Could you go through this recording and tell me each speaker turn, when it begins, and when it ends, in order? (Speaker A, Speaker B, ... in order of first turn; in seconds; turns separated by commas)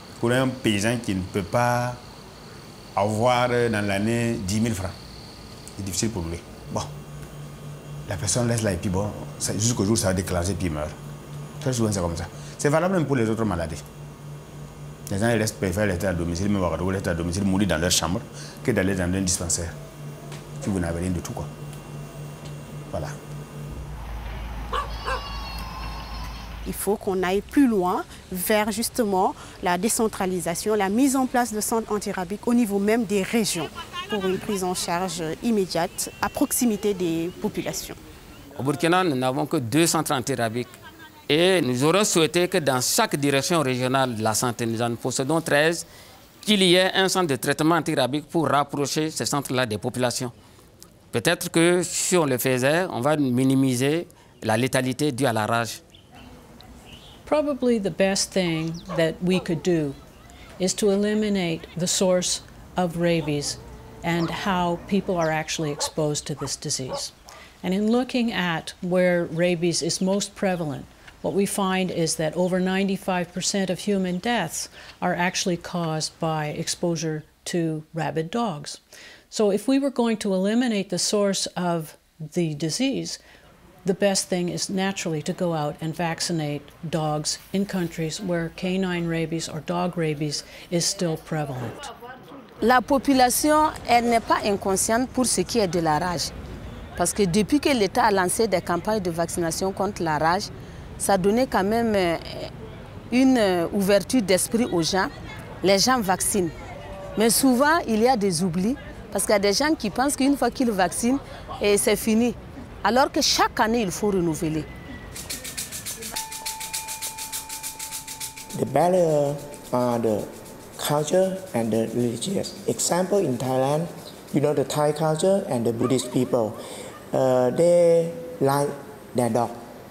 Speaker A: 0.2-2.0, Speaker A: 3.0-5.0, Speaker A: 5.8-6.9, Speaker A: 8.1-11.0, Speaker A: 11.6-13.8, Speaker A: 15.1-19.8, Speaker A: 20.6-21.5, Speaker B: 26.6-38.0, Speaker C: 38.6-40.7, Speaker C: 41.3-45.9, Speaker C: 46.4-50.3, Speaker C: 51.1-55.8, Speaker D: 57.2-60.0, Speaker D: 60.6-83.2, Speaker D: 83.8-91.9, Speaker E: 92.6-96.3, Speaker E: 97.0-100.4, Speaker E: 101.0-102.5, Speaker E: 103.1-105.1, Speaker E: 105.6-106.5, Speaker E: 107.2-114.7, Speaker F: 118.5-126.6, Speaker F: 127.1-129.6